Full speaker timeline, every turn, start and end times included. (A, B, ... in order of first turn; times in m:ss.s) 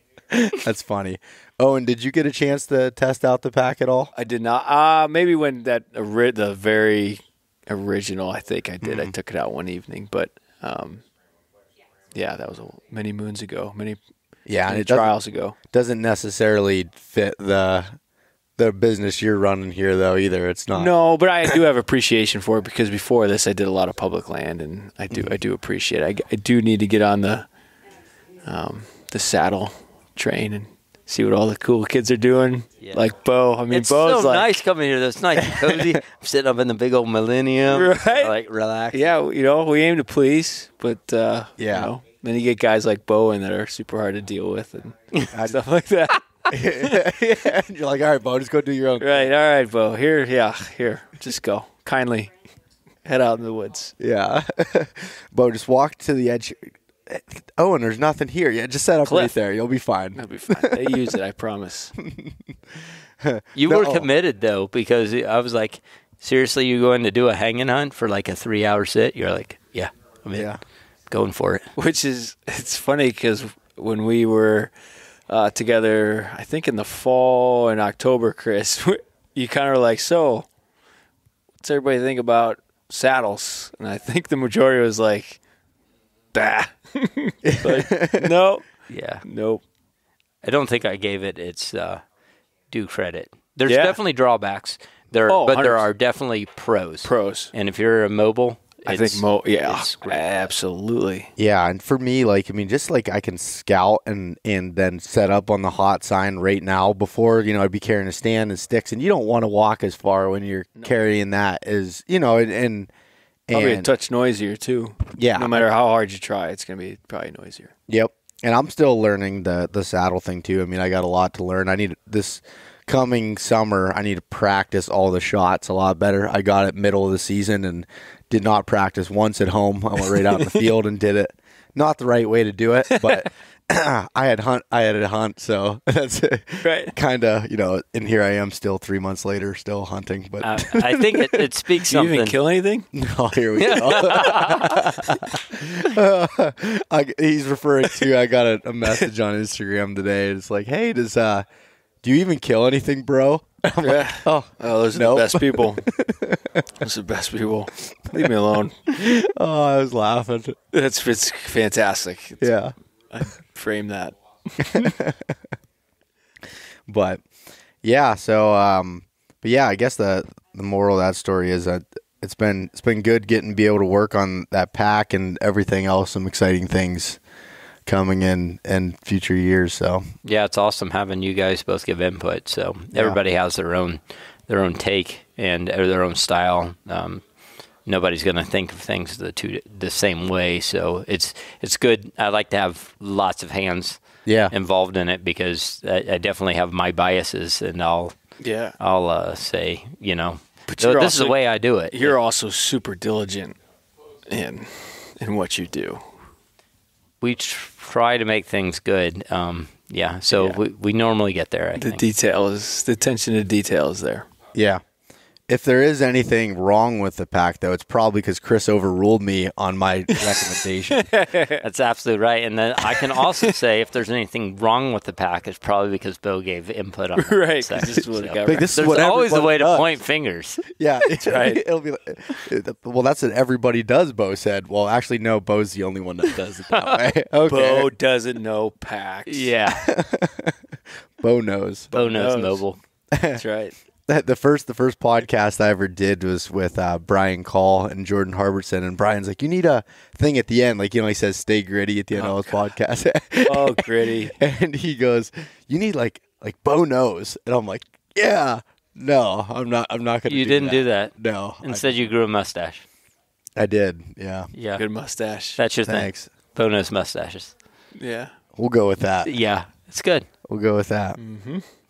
0:00.3-0:04.1 A
0:04.1-0:11.0 B
0:08.8-0:09.1 A
0:12.1-0:14.0 B
0:14.4-0:15.2 A
0:14.7-0:15.6 B
0:15.7-0:17.9 A
0:18.6-0:20.9 A
0:20.7-0:27.5 B
0:28.4-0:34.5 B
0:33.7-0:39.1 C
0:35.5-0:36.0 A
0:37.7-0:38.3 B
0:38.9-0:47.1 B
0:41.6-0:41.9 A
0:45.3-0:45.6 A
0:46.5-0:49.3 A
0:49.0-0:52.3 B
0:53.0-0:53.9 B
0:54.0-1:01.0 A
0:59.0-0:59.3 B
1:00.2-1:01.9 B
1:02.0-1:02.4 A
1:03.2-1:04.1 A
1:03.6-1:10.6 C
1:10.3-1:10.6 A
1:11.1-1:11.7 C
1:11.8-1:14.7 B
1:15.3-1:20.5 B
1:21.6-1:25.4 B
1:26.3-1:28.7 B
1:27.4-1:28.3 A
1:28.9-1:29.2 C
1:29.2-1:29.6 B
1:30.4-1:32.0 C
1:32.7-1:40.4 C
1:33.7-1:34.0 B
1:35.3-1:35.8 B
1:37.0-1:37.5 B
1:38.8-1:41.3 B
1:41.4-1:52.9 A
1:53.5-1:53.9 A
1:53.5-1:57.7 B
1:55.2-1:55.6 A
1:57.9-2:21.5 A
2:12.9-2:13.2 B
2:16.6-2:16.9 B
2:20.4-2:22.4 C
2:21.9-2:22.9 B
2:22.9-2:31.4 A
2:23.6-2:24.9 C
2:23.7-2:24.4 B
2:32.0-2:36.6 A
2:33.8-2:35.9 B
2:36.8-2:38.8 B
2:38.9-2:40.6 A
2:40.7-2:42.5 B
2:42.4-2:42.7 A
2:43.1-2:44.9 B
2:44.6-2:45.4 A
2:46.9-2:47.2 A
2:47.8-2:57.2 A
2:57.9-3:00.0 A
3:00.2-3:07.2 C
3:02.9-3:03.2 A
3:07.8-3:14.0 C
3:14.2-3:14.5 A
3:14.5-3:18.1 C
3:18.4-3:18.8 B
3:18.8-3:22.2 C
3:20.7-3:21.4 B
3:21.9-3:23.6 B
3:24.3-3:26.1 B
3:27.2-3:32.0 C
3:30.3-3:30.6 B
3:31.8-3:34.3 B
3:34.5-3:34.8 A
3:35.5-3:41.1 A
3:40.2-3:41.6 B
3:41.6-3:50.6 C
3:42.9-3:43.5 B
3:47.2-3:49.0 B
3:48.4-3:49.9 A
3:50.7-3:57.9 A
3:51.2-3:51.6 B
3:56.7-3:57.1 C
3:57.5-3:59.6 B
3:59.3-3:59.9 C
3:59.7-4:01.9 A
4:01.9-4:02.6 B
4:01.9-4:02.8 C
4:03.1-4:03.4 A
4:03.3-4:03.7 B
4:04.1-4:21.9 A
4:12.1-4:12.6 B
4:13.5-4:14.4 B
4:20.3-4:22.8 C
4:23.6-4:24.5 A
4:24.5-4:24.8 C
4:24.7-4:25.6 B
4:25.6-4:27.5 C
4:25.8-4:26.3 A
4:27.9-4:28.3 B
4:28.5-4:29.3 A
4:29.2-4:30.3 C
4:30.4-4:31.2 A
4:31.2-4:31.6 B